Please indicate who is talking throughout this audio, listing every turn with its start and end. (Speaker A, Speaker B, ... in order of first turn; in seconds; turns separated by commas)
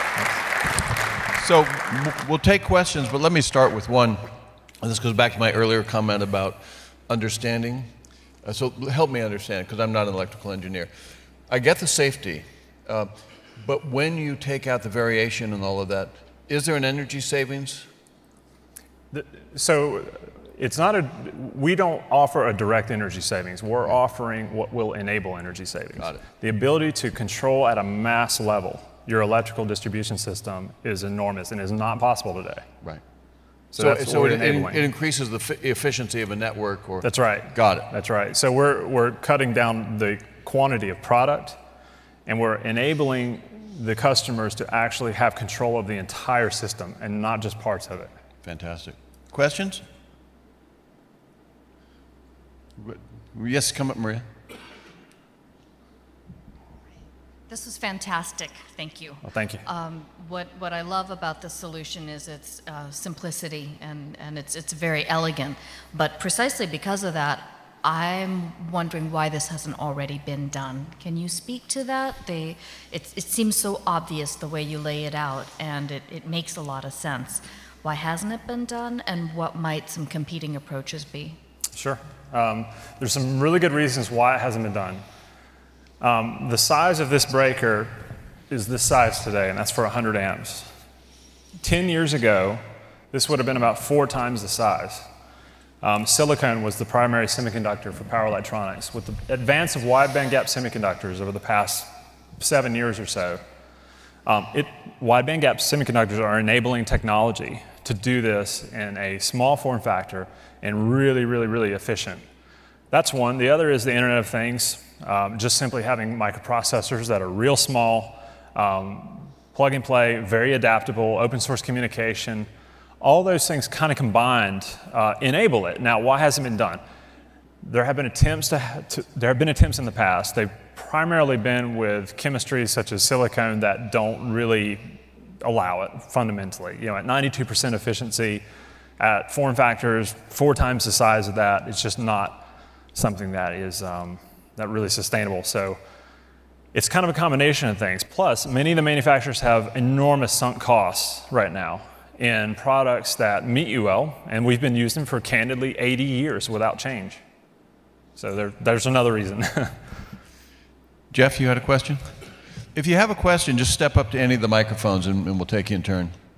Speaker A: 1.4-10.9, Speaker A: 11.5-17.9, Speaker B: 19.1-32.6, Speaker B: 33.7-34.8, Speaker A: 33.8-37.9, Speaker B: 37.0-41.6, Speaker B: 42.3-48.1, Speaker A: 48.4-49.8, Speaker A: 52.8-54.3, Speaker C: 57.5-81.4, Speaker B: 59.2-59.6, Speaker B: 81.8-85.0, Speaker B: 86.0-90.7, Speaker B: 91.6-95.0, Speaker B: 95.8-103.4, Speaker B: 104.3-112.2, Speaker B: 112.9-122.5, Speaker B: 123.0-126.8, Speaker B: 127.6-138.4, Speaker B: 139.0-145.8, Speaker B: 146.7-157.2, Speaker B: 158.2-160.0, Speaker A: 161.1-166.2